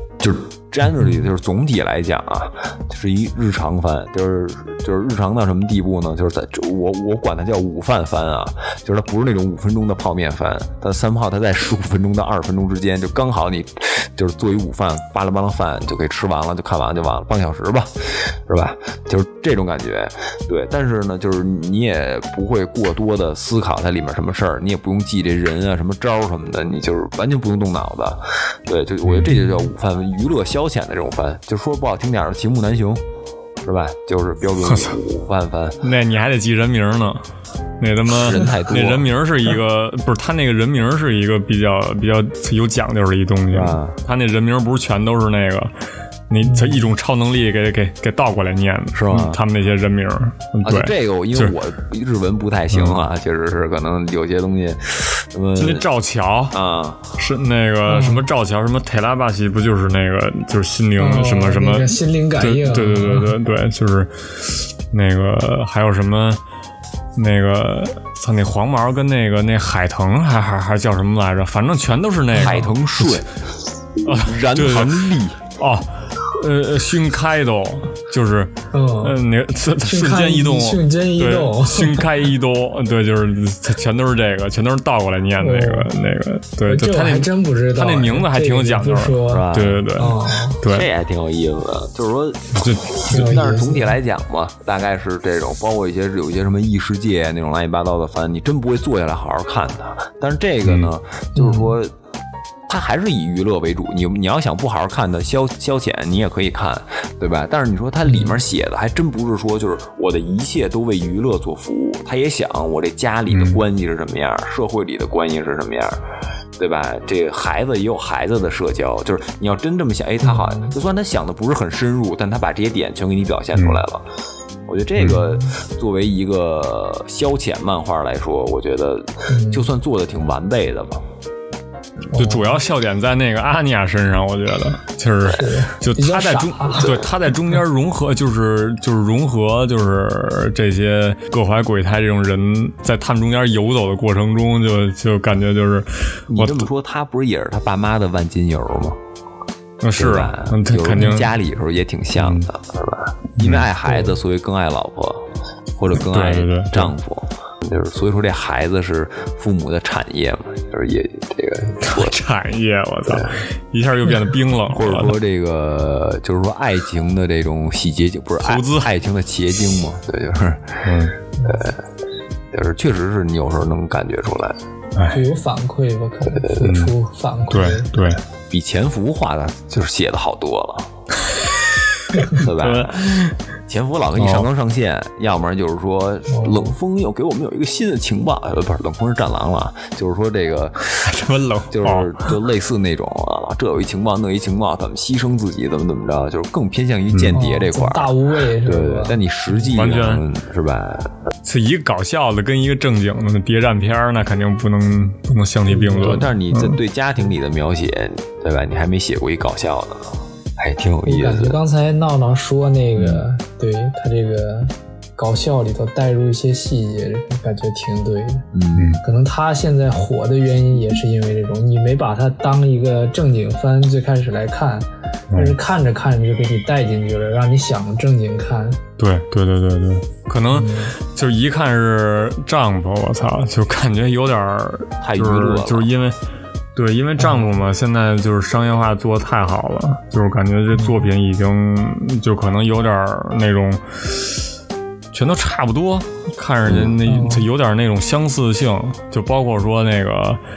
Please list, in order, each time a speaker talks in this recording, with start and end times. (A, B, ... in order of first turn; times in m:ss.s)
0:00.2-0:33.0 A
0:29.0-0:29.3 B
0:33.6-0:35.8 A
0:34.6-0:35.0 B
0:35.8-0:37.2 B
0:37.8-0:45.7 B
0:38.1-0:39.1 A
0:43.5-0:44.0 A
0:46.3-0:51.5 B
0:46.4-0:46.8 C
0:48.9-0:49.4 A
0:50.6-0:55.9 A
0:52.7-0:53.0 B
0:55.6-0:56.6 B
0:56.5-0:57.0 A
0:57.1-1:04.1 B
0:57.9-0:58.2 C
1:01.0-1:03.3 C
1:04.9-1:06.4 B
1:07.2-1:13.2 B
1:12.3-1:13.3 A
1:14.0-1:15.4 A
1:14.0-1:30.9 B
1:18.7-1:19.2 C
1:19.8-1:22.1 C
1:25.4-1:25.9 C
1:26.6-1:30.6 C
1:29.2-1:29.9 A
1:30.6-1:41.9 A
1:32.5-1:33.3 B
1:33.1-1:33.9 C
1:40.6-1:40.9 B
1:41.4-1:41.7 C
1:42.7-1:56.0 A
1:53.3-1:53.6 B
1:56.6-2:04.0 A
2:00.2-2:00.7 C
2:03.6-2:03.8 B
2:04.7-2:11.0 A
2:09.3-2:09.7 C
2:12.1-2:12.6 C
2:12.1-2:26.7 B
2:15.3-2:17.0 C
2:26.3-2:29.0 A
2:29.8-2:31.3 B
2:30.0-2:35.2 A
2:32.2-2:32.4 B
2:33.4-2:33.7 B
2:35.8-2:42.2 A
2:36.0-2:36.9 B
2:41.8-2:45.2 B
2:43.1-2:43.4 A
2:44.7-2:50.9 A
2:48.4-2:48.9 B
2:50.8-2:51.1 B
2:51.4-2:51.8 A
2:52.5-2:54.6 A
2:55.1-2:57.9 C
2:56.3-2:56.7 A
2:56.6-2:56.9 B
2:57.5-2:58.2 B
2:58.5-3:00.9 A
3:02.1-3:03.4 B
3:02.3-3:03.1 A
3:03.7-3:11.0 A
3:04.2-3:04.5 B
3:06.3-3:06.7 C
3:11.0-3:12.3 B
3:11.7-3:21.1 A
3:17.1-3:17.4 B
3:17.3-3:19.2 C
3:19.7-3:20.2 B
3:21.4-3:26.8 B
3:25.7-3:26.2 C
3:26.0-3:31.6 A
3:31.0-3:38.4 C
3:38.5-3:39.0 A
3:39.0-3:48.8 C
3:45.3-3:45.6 B
3:49.0-3:56.2 B
3:50.5-3:50.9 C
3:55.0-3:55.9 A
3:56.7-4:04.3 B
3:57.2-3:57.5 C
4:00.7-4:01.0 C
4:05.1-4:10.4 B
4:06.6-4:07.0 A
4:07.0-4:07.5 C